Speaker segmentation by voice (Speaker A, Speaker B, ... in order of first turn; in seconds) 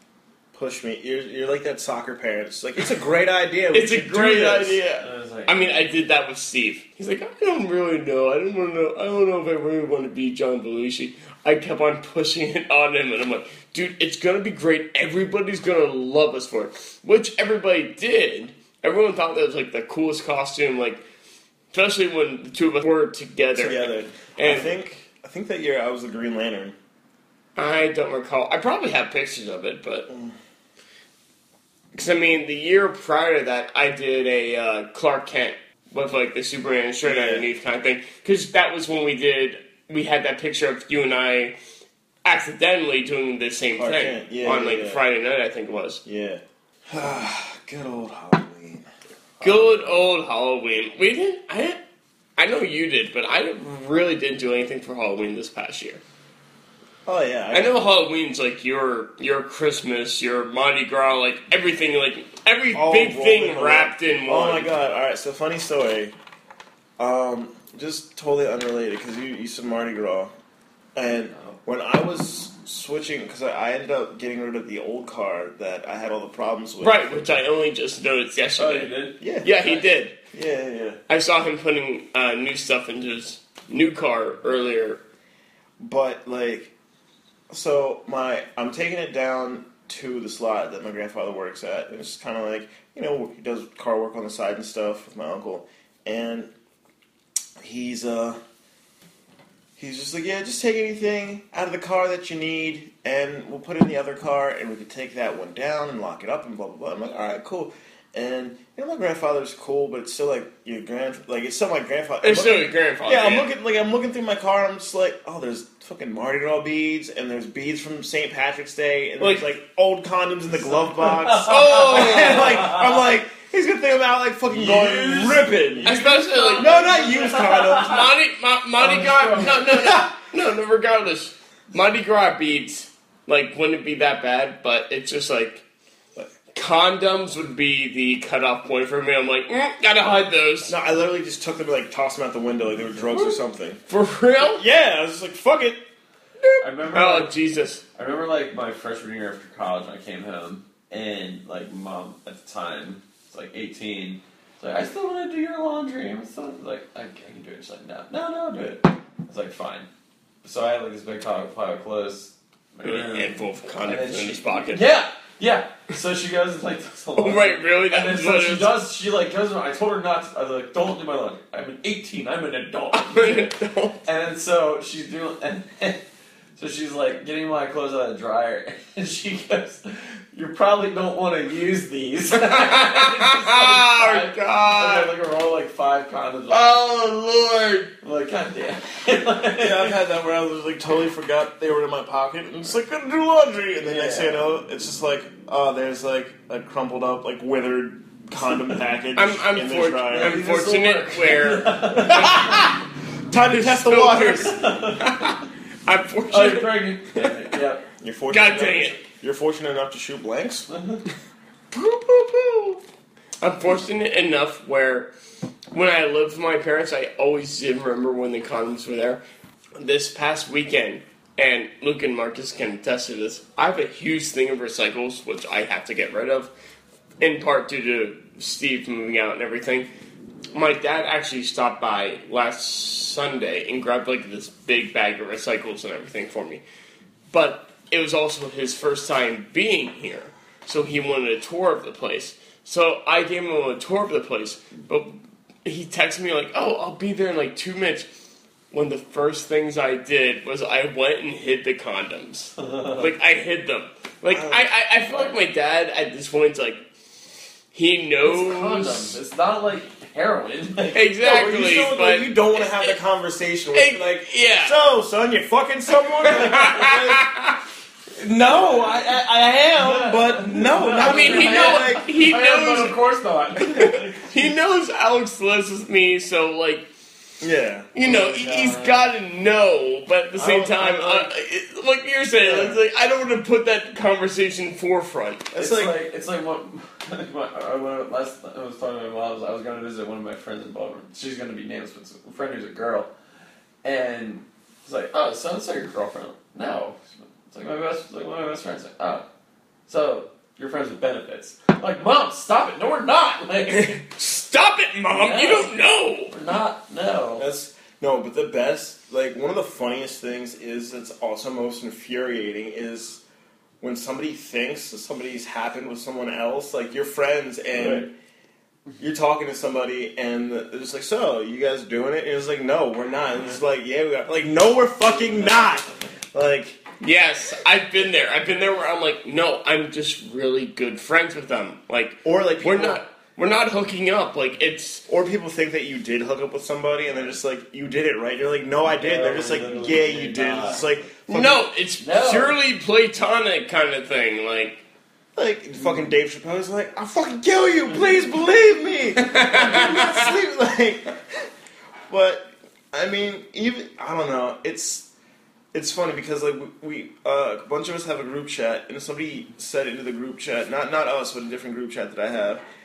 Speaker A: 0.5-4.8, 23.6-26.8, 30.1-30.3, 37.0-37.5, 43.8-45.0, 46.0-48.9, 57.1-57.9, 62.7-66.1, 67.0-70.3, 71.0-77.4, 79.2-79.5, 80.3-81.0, 85.8-86.7, 87.5-96.5, 97.6-98.4, 99.8-126.0, 126.6-128.1, 129.7-130.1, 140.7-143.8, 144.4-145.8, 189.6-200.4, 203.3-204.6, 208.0-210.7, 254.3-254.7, 261.2-267.3, 268.1-272.1, 277.4-277.9, 280.4-280.9, 282.4-282.8, 285.5-285.9, 307.4-313.2, 313.8-318.1, 319.0-326.8, 332.2-333.0, 335.1-341.6, 345.4-351.5, 352.1-355.1, 355.7-362.6
Speaker B: 3.7-21.0, 21.7-24.7, 27.6-30.1, 31.9-41.5, 42.2-46.0, 49.4-51.8, 52.4-56.0, 57.5-64.7, 76.8-80.2, 81.1-85.0, 112.2-113.5, 119.2-119.5, 121.4-122.7, 125.8-135.6, 136.5-140.8, 143.9-144.6, 146.4-147.8, 162.8-164.9, 167.2-168.9, 172.9-174.0, 182.3-185.2, 186.5-187.9, 199.2-202.8, 203.3-207.5, 208.3-209.0, 211.7-212.8, 213.4-215.1, 215.7-219.2, 219.8-226.5, 227.2-229.9, 230.5-236.6, 237.3-245.1, 245.7-248.1, 248.7-256.8, 257.7-259.2, 260.9-263.0, 263.7-264.8, 266.2-267.6, 271.0-273.0, 273.6-276.9, 277.9-285.5, 303.7-306.3, 327.0-335.0, 341.3-344.8, 349.2-350.3
Speaker C: 5.0-5.9, 49.4-50.0, 71.3-71.6, 78.6-79.9, 120.6-122.9, 124.5-127.8, 128.8-129.8, 146.6-147.3, 147.9-159.9, 160.4-173.5, 174.0-176.0, 176.6-186.8, 188.0-189.9, 193.8-194.4, 200.1-202.7, 204.4-205.3, 206.3-207.8, 210.7-211.0, 252.6-253.1, 258.2-261.1, 268.4-269.1, 269.8-274.5, 278.0-279.1, 280.4-281.3, 285.6-293.1, 293.8-299.3, 299.9-304.0, 305.1-305.7, 306.3-307.5, 338.9-340.9, 342.0-342.6